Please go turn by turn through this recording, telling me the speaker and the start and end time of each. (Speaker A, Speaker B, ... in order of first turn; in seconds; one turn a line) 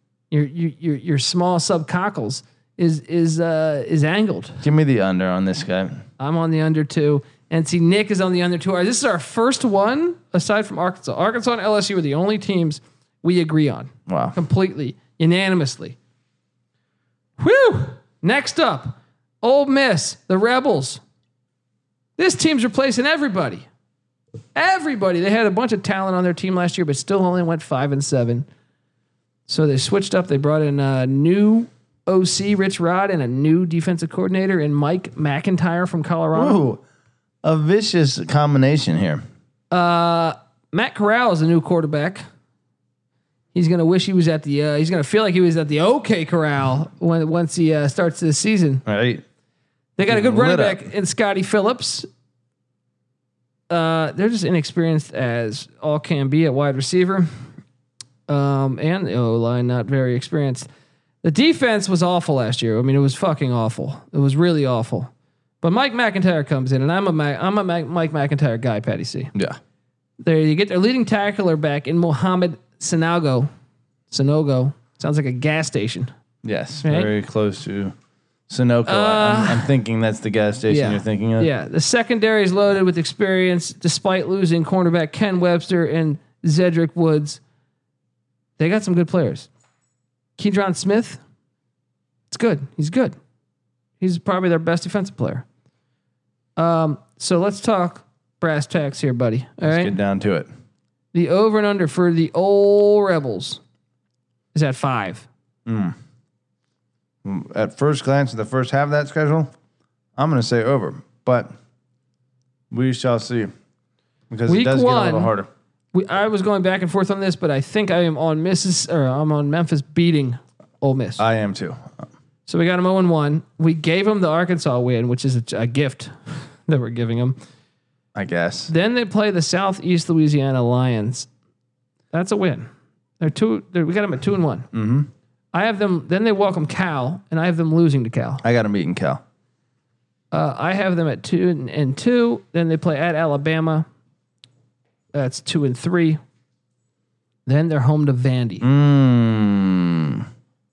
Speaker A: 0.3-4.6
Speaker B: 4.6-6.0
Speaker A: 6.2-16.0
Speaker B: 14.1-14.4
Speaker A: 17.4-21.0
Speaker A: 22.2-23.6
Speaker A: 24.5-28.4
Speaker A: 29.5-36.6
Speaker B: 36.3-36.8
Speaker B: 37.4-39.2
Speaker A: 39.7-42.2
Speaker A: 43.5-48.8
Speaker B: 48.9-49.2
Speaker A: 50.0-52.0
Speaker B: 50.0-50.8
Speaker A: 53.7-57.3
Speaker A: 58.3-60.7
Speaker A: 61.2-65.1
Speaker A: 65.6-69.3
Speaker A: 70.2-73.5
Speaker A: 74.1-76.1
Speaker B: 76.4-77.9
Speaker A: 76.8-77.1
Speaker B: 78.5-81.5
Speaker A: 78.8-79.7
Speaker A: 80.7-87.4
Speaker A: 88.6-89.5
Speaker A: 90.4-91.2
Speaker A: 92.3-93.2
Speaker A: 94.0-95.5
Speaker A: 96.6-99.9
Speaker B: 99.6-100.5
Speaker A: 101.1-103.6
Speaker A: 104.5-105.3
Speaker B: 105.7-106.0
Speaker B: 107.2-109.5
Speaker B: 110.2-111.5
Speaker B: 112.7-113.5
Speaker B: 114.3-115.5
Speaker A: 114.5-115.3
Speaker A: 115.9-121.2
Speaker B: 121.2-121.9
Speaker A: 122.5-127.4
Speaker B: 128.1-128.7
Speaker A: 128.7-131.3
Speaker A: 132.1-132.7
Speaker A: 133.2-134.7
Speaker B: 134.7-135.1
Speaker A: 135.5-138.4
Speaker B: 138.4-139.2
Speaker A: 140.3-143.8
Speaker A: 145.1-146.2
Speaker A: 147.4-148.7
Speaker B: 148.6-150.2